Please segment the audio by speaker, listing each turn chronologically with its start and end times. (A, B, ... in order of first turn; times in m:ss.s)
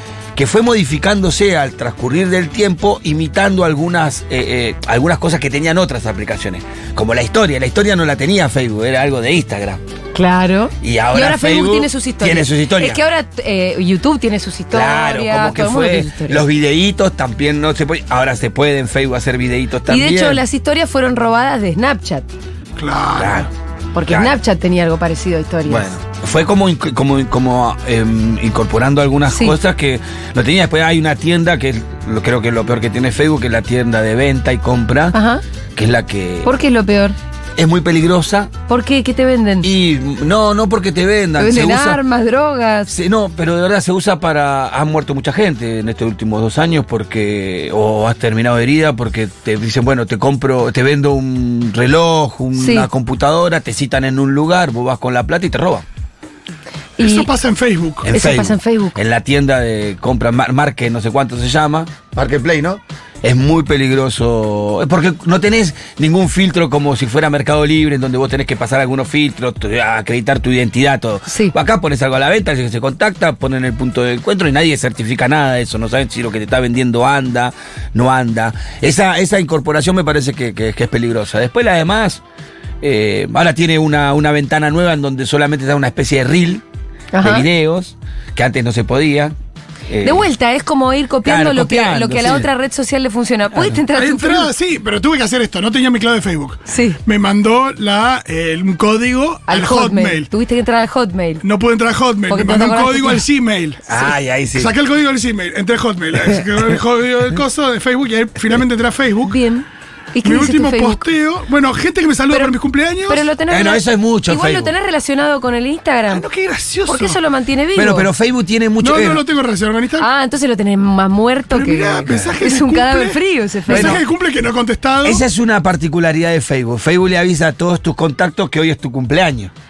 0:00.4-0:09.8 A
0:10.1-0:16.4 B
0:10.8-0:13.0 A
0:14.7-0:20.4 A
0:19.9-0:22.3 B
0:22.8-0:23.5 C
0:23.2-0:23.5 A
0:23.9-0:25.9 B
0:24.0-0:24.4 A
0:25.7-0:35.2 A
0:29.3-0:29.6 B
0:35.1-0:35.4 B
0:35.8-0:36.5 A
0:36.4-0:37.2 B
0:37.6-0:38.5 A
0:38.7-0:39.7 B
0:39.6-0:42.0 A
0:41.4-0:42.9 B
0:42.9-0:55.8 A
0:52.6-0:52.9 B
0:57.0-0:58.1 C
0:57.0-0:57.3 B
0:58.0-1:22.2 A
0:58.1-0:59.0 B
1:11.3-1:11.5 B
1:22.8-1:26.6 A
1:27.1-1:27.5 B
1:27.2-1:29.4 A
1:29.9-1:30.3 A
1:30.0-1:34.5 B
1:31.2-1:32.5 A
1:33.5-1:33.8 A
1:33.9-1:40.3 C
1:36.7-1:37.0 B
1:39.5-1:41.4 B
1:41.4-1:43.9 C
1:42.3-1:43.2 B
1:43.9-1:44.7 A
1:44.5-1:49.4 C
1:49.2-1:51.0 B
1:50.2-1:53.2 C
1:53.0-1:56.3 B
1:53.5-1:54.7 A
1:56.1-1:57.2 C
1:56.8-1:58.1 B
1:57.8-1:59.2 A
1:58.8-2:00.1 C
2:00.0-2:04.0 B
2:01.5-2:05.2 C
2:02.1-2:02.4 A
2:03.7-2:04.0 A
2:05.0-2:09.5 A